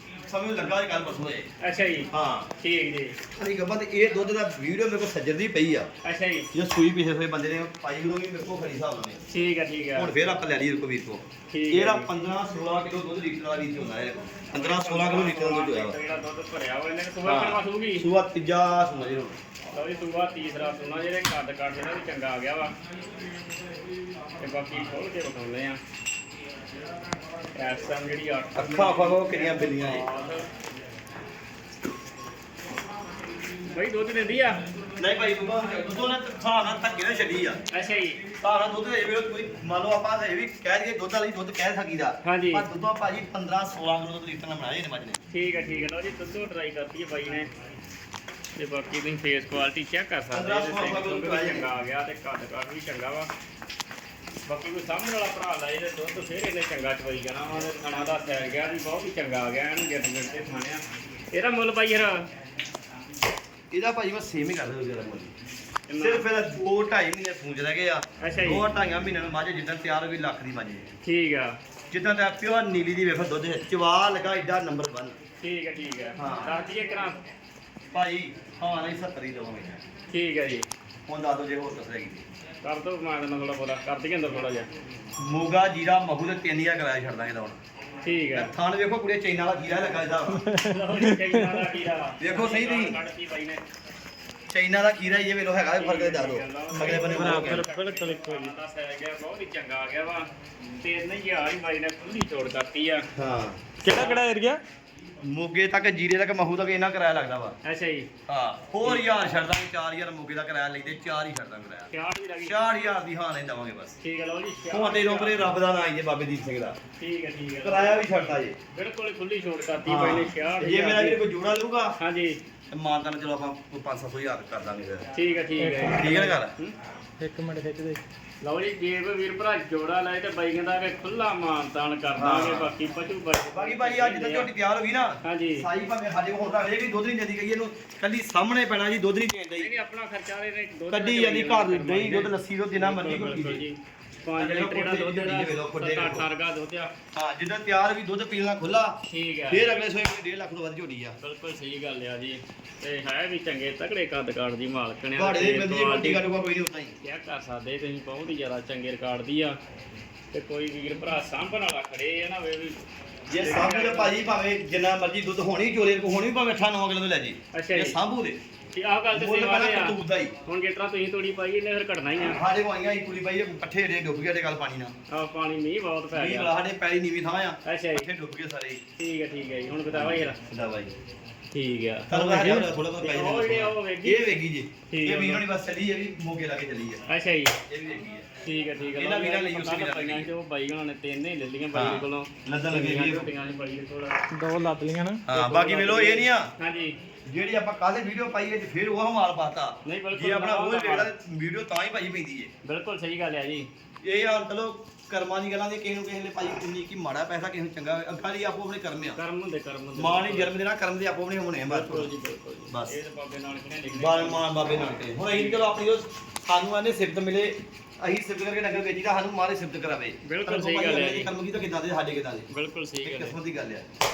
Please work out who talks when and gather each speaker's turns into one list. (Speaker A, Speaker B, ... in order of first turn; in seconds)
Speaker A: 0.2-1.5, 2.1-2.5, 3.3-5.9, 6.5-9.2, 9.9-16.0, 17.2-19.4, 28.6-30.1, 35.0-37.6, 38.3-45.2, 50.3-51.7, 63.7-65.3, 66.0-70.9, 71.9-75.2, 76.2-76.5, 77.9-79.8, 81.1-82.2, 85.2-87.6, 88.3-90.5, 92.2-93.0, 94.5-97.7, 103.2-103.8, 105.2-107.6, 108.3-111.9, 112.4-114.0, 114.7-116.8, 117.6-118.6, 119.9-122.0, 122.7-125.0, 125.9-126.5, 132.2-132.7, 133.5-139.7, 140.9-143.6, 144.4-146.3, 147.1-149.0, 149.5-151.2, 155.2-156.9, 163.3-168.4, 169.1-170.3, 172.3-174.9, 176.1-178.8, 179.9-180.9, 182.1-187.0, 187.7-188.3, 189.0-190.3, 191.7-193.3, 195.3-196.5, 197.3-202.5, 204.0-209.2, 210.0-212.1, 212.7-213.0, 213.9-222.5, 223.0-223.9
Speaker B: 1.6-3.2, 6.0-6.5, 9.3-10.1, 11.5-12.1, 14.5-18.1, 19.7-22.7, 24.4-25.8, 27.6-30.5, 33.7-34.6, 37.7-38.2, 42.2-42.7, 45.3-47.5, 48.6-53.3, 54.5-62.3, 65.9-66.3, 68.2-68.7, 71.0-71.6, 75.4-77.2, 80.1-80.7, 82.6-84.7, 88.0-88.5, 90.6-93.6, 95.8-103.1, 103.8-104.3, 107.6-108.1, 111.9-112.6, 114.0-115.5, 117.0-121.2, 122.0-122.4, 125.1-126.8, 128.4-134.5, 135.2-135.7, 139.6-146.9, 149.1-149.7, 151.2-156.2, 157.0-159.6, 160.3-162.8, 163.3-164.2, 167.5-168.0, 168.7-172.4, 175.1-176.5, 177.7-178.1, 179.0-180.4, 181.5-184.3, 184.9-185.5, 187.1-187.6, 188.4-194.2, 195.3-197.0, 199.8-201.1, 202.6-203.7, 209.2-210.5, 211.7-214.5, 215.3-215.6, 220.2-221.3, 222.5-223.3
Speaker C: 90.5-91.4, 96.7-98.5, 103.8-104.6, 125.6-126.1, 127.2-128.0, 194.3-195.2